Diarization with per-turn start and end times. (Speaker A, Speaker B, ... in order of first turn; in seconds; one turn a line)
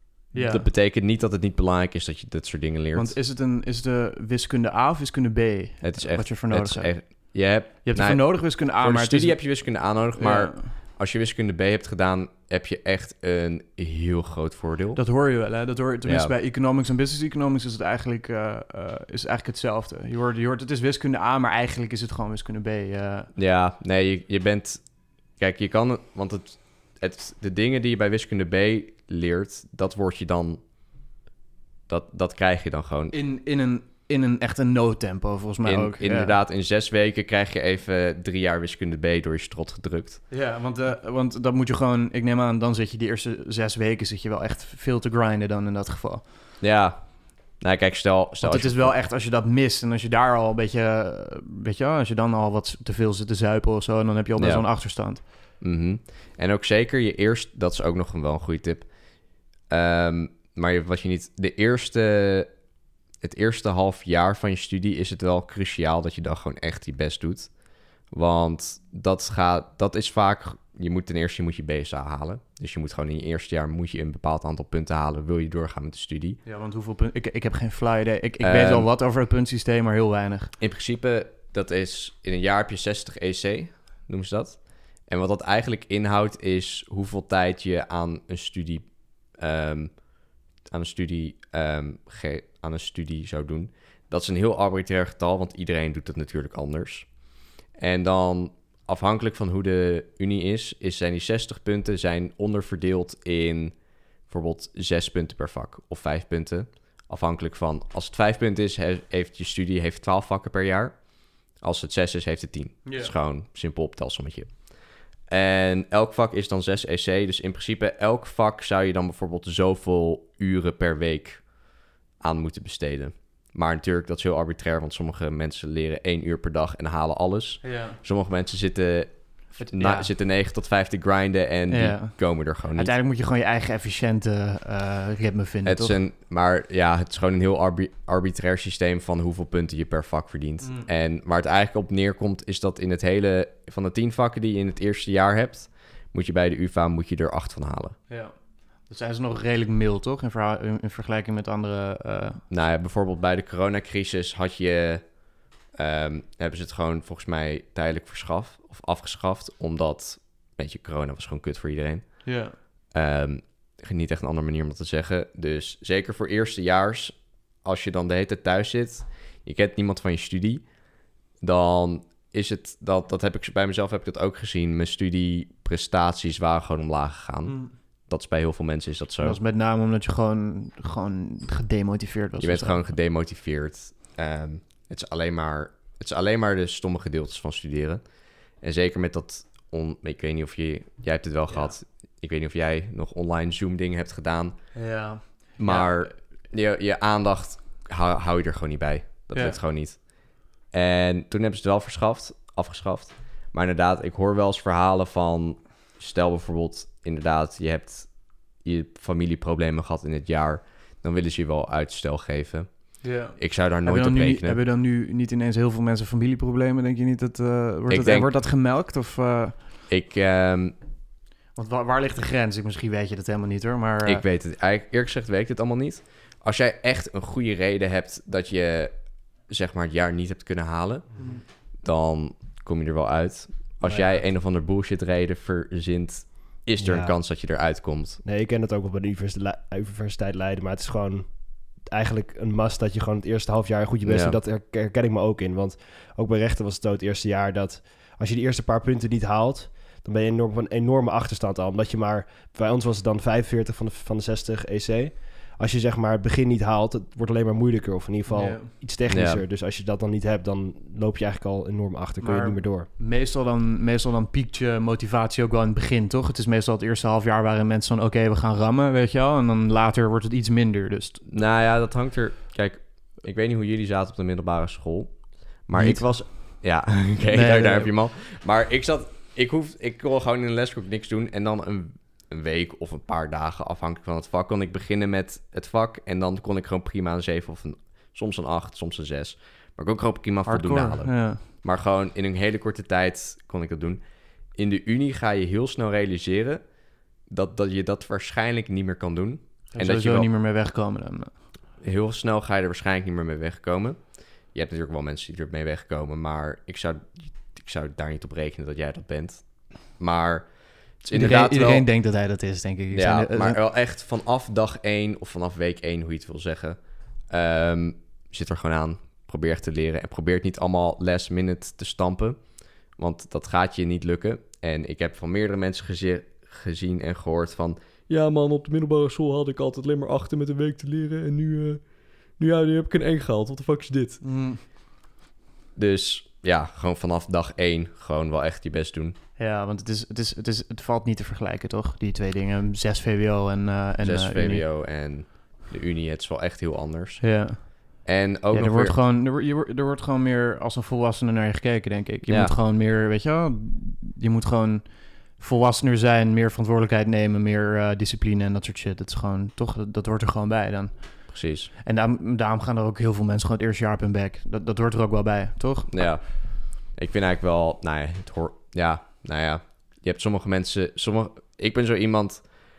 Speaker A: 0.3-0.7
Speaker B: 0.3-3.1
Speaker A: 2.9-9.4
Speaker B: 5.8-15.0
Speaker A: 10.2-10.7
Speaker A: 14.9-23.3
Speaker B: 16.0-16.3
Speaker B: 23.3-30.6
Speaker B: 31.9-33.1
Speaker A: 33.1-36.4
Speaker B: 35.6-40.2
Speaker A: 40.3-46.2
Speaker B: 46.6-48.9
Speaker A: 48.4-55.2
Speaker B: 54.4-54.6
Speaker B: 55.6-58.9
Speaker B: 59.6-62.5
Speaker B: 63.2-67.5
Speaker B: 68.1-76.4
Speaker A: 76.5-80.5
Speaker B: 78.4-78.9
Speaker B: 80.6-97.1
Speaker B: 97.7-132.9
Speaker A: 112.8-113.1
Speaker A: 127.6-128.0
Speaker A: 129.6-130.1
Speaker A: 131.7-136.0
Speaker B: 135.7-148.0
Speaker A: 140.6-140.9
Speaker A: 148.1-152.4
Speaker B: 152.5-155.2
Speaker B: 155.7-170.7
Speaker A: 162.2-162.6
Speaker B: 171.4-179.4
Speaker A: 177.4-177.7
Speaker A: 179.2-182.8
Speaker B: 182.4-194.7
Speaker A: 191.5-191.7
Speaker A: 194.7-196.1
Speaker B: 195.6-214.6
Speaker A: 213.0-219.6
Speaker B: 217.9-218.3
Speaker B: 219.9-220.7
Speaker A: 221.5-224.2
Speaker B: 224.0-238.2
Speaker A: 231.2-231.4
Speaker C: 233.8-234.2
Speaker C: 236.8-237.1
Speaker C: 238.2-262.9
Speaker B: 244.0-244.3
Speaker A: 258.3-258.7
Speaker B: 259.1-259.4
Speaker A: 262.2-271.2
Speaker B: 271.2-296.6
Speaker A: 275.7-276.6
Speaker A: 277.3-277.9
Speaker A: 290.4-291.4
Speaker B: 297.2-300.3
Speaker A: 299.7-301.3
Speaker B: 301.8-311.9
Speaker A: 311.1-313.6
Speaker B: 312.9-334.2
Speaker A: 334.2-334.6
Speaker B: 335.8-339.1
Speaker A: 339.4-344.6
Speaker B: 344.0-349.0
Speaker A: 347.2-366.1
Speaker B: 352.3-352.5
Speaker B: 361.3-361.7
Speaker B: 365.9-372.5